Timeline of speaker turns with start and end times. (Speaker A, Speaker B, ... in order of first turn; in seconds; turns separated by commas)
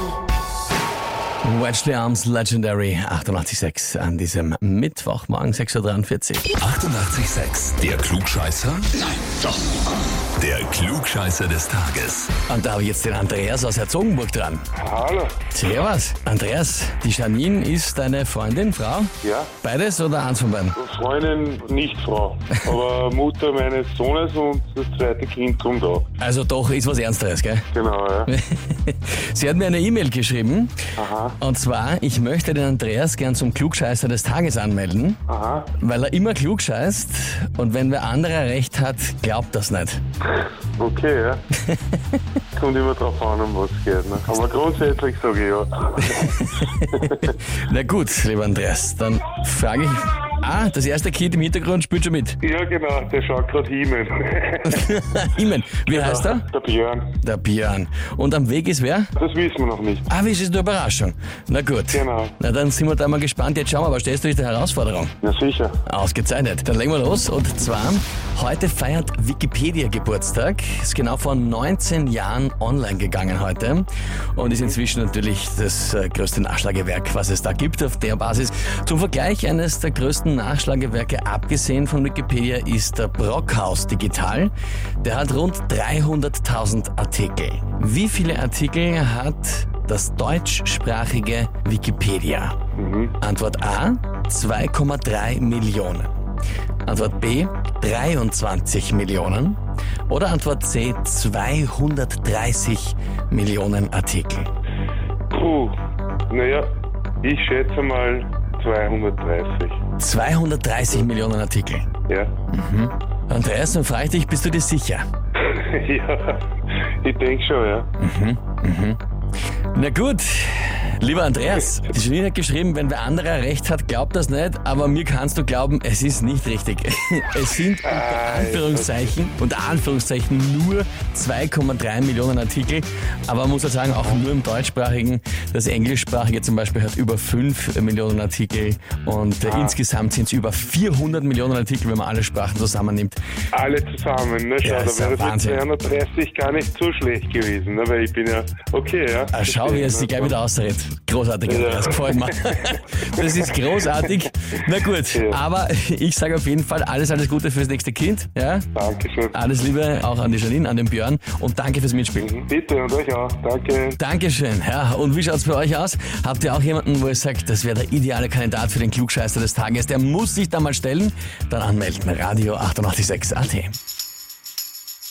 Speaker A: 1.4-6.5, Speaker B: 6.5-9.4, Speaker B: 10.3-12.3, Speaker A: 12.5-14.7, Speaker C: 14.7-15.4, Speaker A: 15.5-20.8, Speaker C: 19.2-19.5, Speaker C: 20.8-26.1, Speaker A: 26.2-27.6, Speaker C: 27.7-28.3, Speaker A: 28.2-30.8, Speaker C: 31.0-31.4, Speaker A: 31.4-35.2, Speaker C: 35.3-35.7, Speaker A: 35.7-40.0, Speaker C: 40.8-41.4, Speaker A: 41.5-42.2, Speaker C: 42.5-46.4, Speaker A: 46.0-52.4, Speaker C: 46.9-47.2, Speaker C: 52.4-54.9, Speaker A: 54.6-56.5, Speaker C: 55.9-57.1, Speaker A: 57.2-59.1, Speaker C: 59.1-60.1, Speaker A: 60.1-65.1, Speaker C: 61.9-62.3, Speaker C: 65.2-65.8, Speaker A: 65.8-92.5, Speaker C: 74.5-74.7, Speaker C: 92.8-93.1, Speaker A: 93.2-96.1, Speaker A: 96.8-104.5, Speaker C: 105.3-105.8, Speaker C: 106.3-106.7, Speaker C: 107.2-109.8, Speaker A: 110.0-111.9, Speaker A: 112.5-115.0, Speaker C: 115.4-117.9, Speaker A: 118.0-119.0, Speaker A: 119.7-143.2, Speaker C: 127.8-129.1, Speaker C: 139.4-139.8, Speaker C: 143.5-150.4, Speaker A: 144.6-145.6, Speaker A: 149.3-158.7, Speaker C: 151.4-152.6, Speaker C: 155.1-155.4, Speaker C: 158.7-159.4, Speaker A: 159.3-162.4, Speaker C: 162.2-164.0, Speaker A: 164.0-173.8